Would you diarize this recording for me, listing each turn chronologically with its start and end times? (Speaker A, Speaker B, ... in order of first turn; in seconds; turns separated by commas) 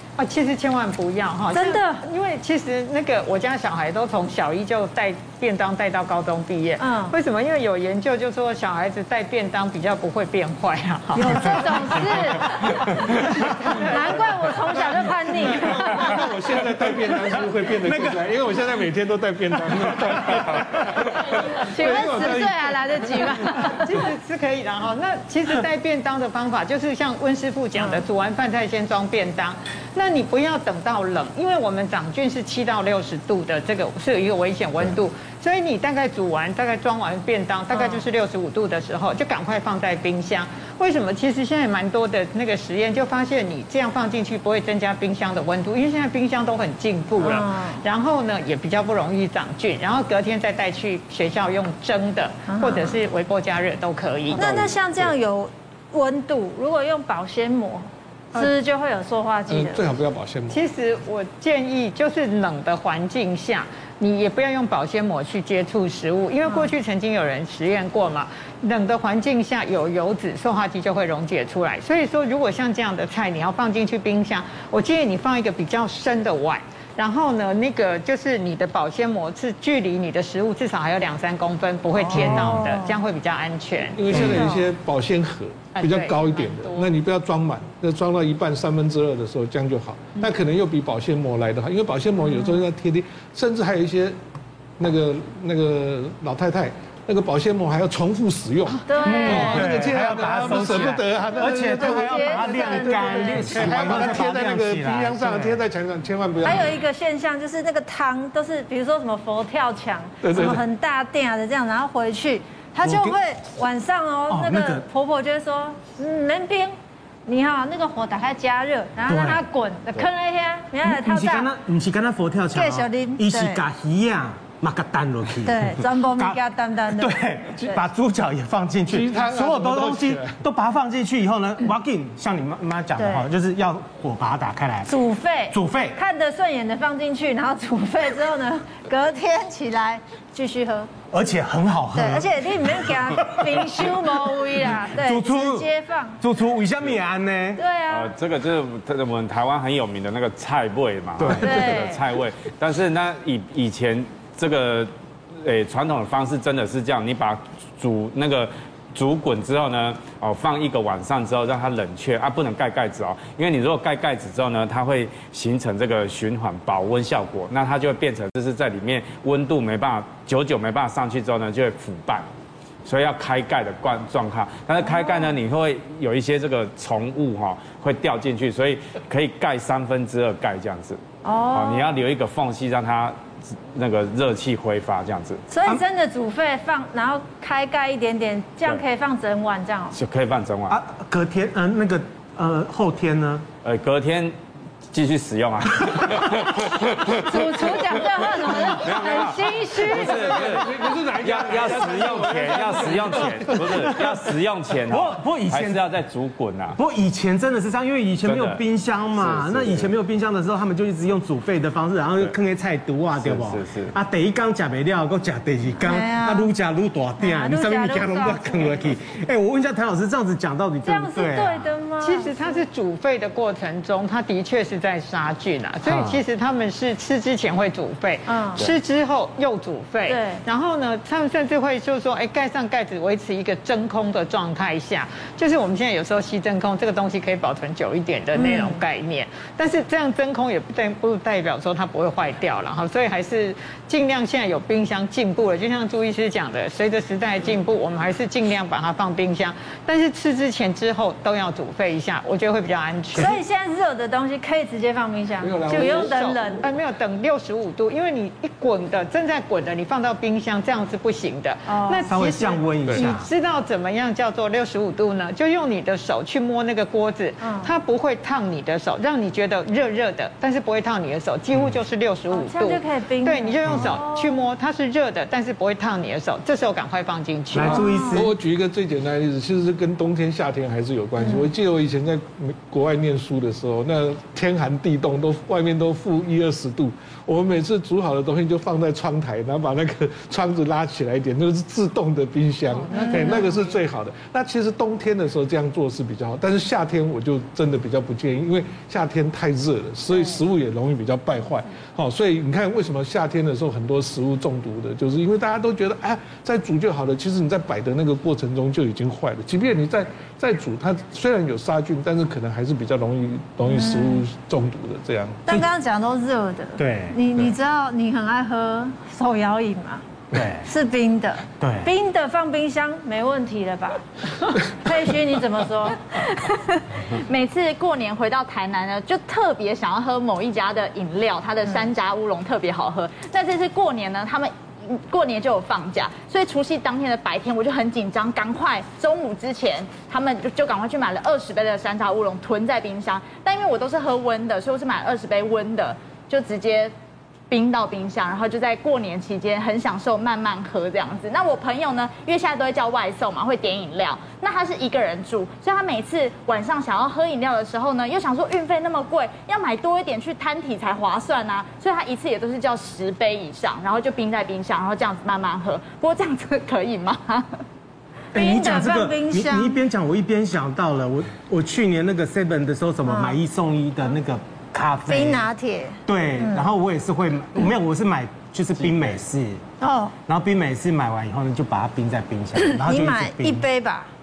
Speaker A: 0.2-12.4, Speaker B: 1.5-2.0, Speaker B: 6.8-7.2, Speaker B: 11.1-16.1, Speaker C: 11.3-13.8, Speaker A: 13.4-14.2, Speaker D: 14.0-23.5, Speaker C: 15.9-18.3, Speaker C: 19.7-21.4, Speaker B: 21.7-24.0, Speaker A: 23.8-54.6, Speaker B: 27.8-28.0, Speaker B: 37.7-38.0, Speaker B: 47.2-47.8, Speaker B: 52.5-53.0, Speaker B: 54.4-59.9, Speaker D: 54.4-55.0, Speaker D: 59.5-60.7, Speaker A: 60.5-84.2, Speaker B: 66.5-66.7, Speaker B: 82.0-83.0, Speaker D: 83.9-94.2, Speaker C: 84.1-84.5, Speaker B: 84.2-84.6, Speaker A: 85.8-86.9, Speaker D: 94.8-106.8, Speaker B: 98.9-99.8, Speaker C: 99.0-105.6, Speaker B: 100.6-104.2, Speaker B: 106.4-116.8, Speaker D: 110.2-110.7, Speaker C: 112.8-113.2, Speaker C: 114.3-114.9, Speaker B: 117.3-121.5, Speaker C: 119.1-119.4, Speaker C: 120.8-136.0, Speaker B: 122.5-123.6, Speaker B: 125.4-127.1, Speaker D: 128.9-130.4, Speaker B: 133.0-133.2, Speaker B: 134.8-140.9, Speaker C: 141.1-144.1, Speaker B: 141.9-146.2, Speaker C: 144.6-147.6, Speaker B: 147.6-148.1, Speaker E: 147.9-172.3, Speaker C: 151.2-151.6, Speaker B: 151.4-152.0, Speaker E: 172.8-181.0, Speaker B: 174.8-175.3, Speaker B: 181.2-181.9, Speaker E: 181.5-183.2, Speaker E: 183.7-185.4, Speaker B: 185.5-190.0, Speaker E: 189.9-190.8, Speaker C: 190.7-193.5, Speaker E: 193.6-194.3, Speaker E: 194.9-206.8, Speaker B: 197.2-200.2, Speaker D: 199.8-204.0, Speaker C: 203.5-204.1, Speaker C: 204.9-205.8, Speaker C: 206.8-221.8, Speaker E: 208.2-209.9, Speaker E: 213.2-213.9, Speaker B: 215.8-216.5, Speaker B: 217.2-218.9, Speaker B: 220.8-222.7, Speaker A: 222.0-253.3, Speaker C: 225.8-226.2, Speaker B: 228.3-228.7, Speaker B: 230.1-230.4, Speaker B: 238.3-238.8, Speaker B: 253.1-256.7, Speaker C: 253.2-253.4, Speaker D: 255.4-256.7, Speaker A: 255.7-277.8, Speaker B: 261.7-262.1, Speaker C: 262.0-263.3, Speaker B: 267.4-267.7, Speaker C: 271.6-271.8, Speaker B: 272.3-274.4, Speaker C: 273.6-274.0, Speaker C: 277.5-278.3, Speaker D: 277.6-315.5, Speaker B: 277.7-278.3, Speaker B: 281.2-281.5, Speaker B: 292.9-293.5, Speaker B: 313.6-314.2, Speaker B: 315.5-320.0, Speaker C: 316.8-317.2, Speaker C: 320.3-320.7, Speaker B: 320.6-324.0, Speaker C: 321.6-321.9, Speaker B: 324.6-326.1, Speaker F: 326.1-346.9, Speaker F: 347.5-367.5, Speaker C: 368.3-375.5, Speaker B: 368.4-369.8, Speaker B: 373.1-373.4, Speaker B: 375.1-376.6, Speaker C: 376.1-379.6, Speaker B: 379.8-380.1, Speaker C: 380.2-383.7, Speaker B: 382.6-384.1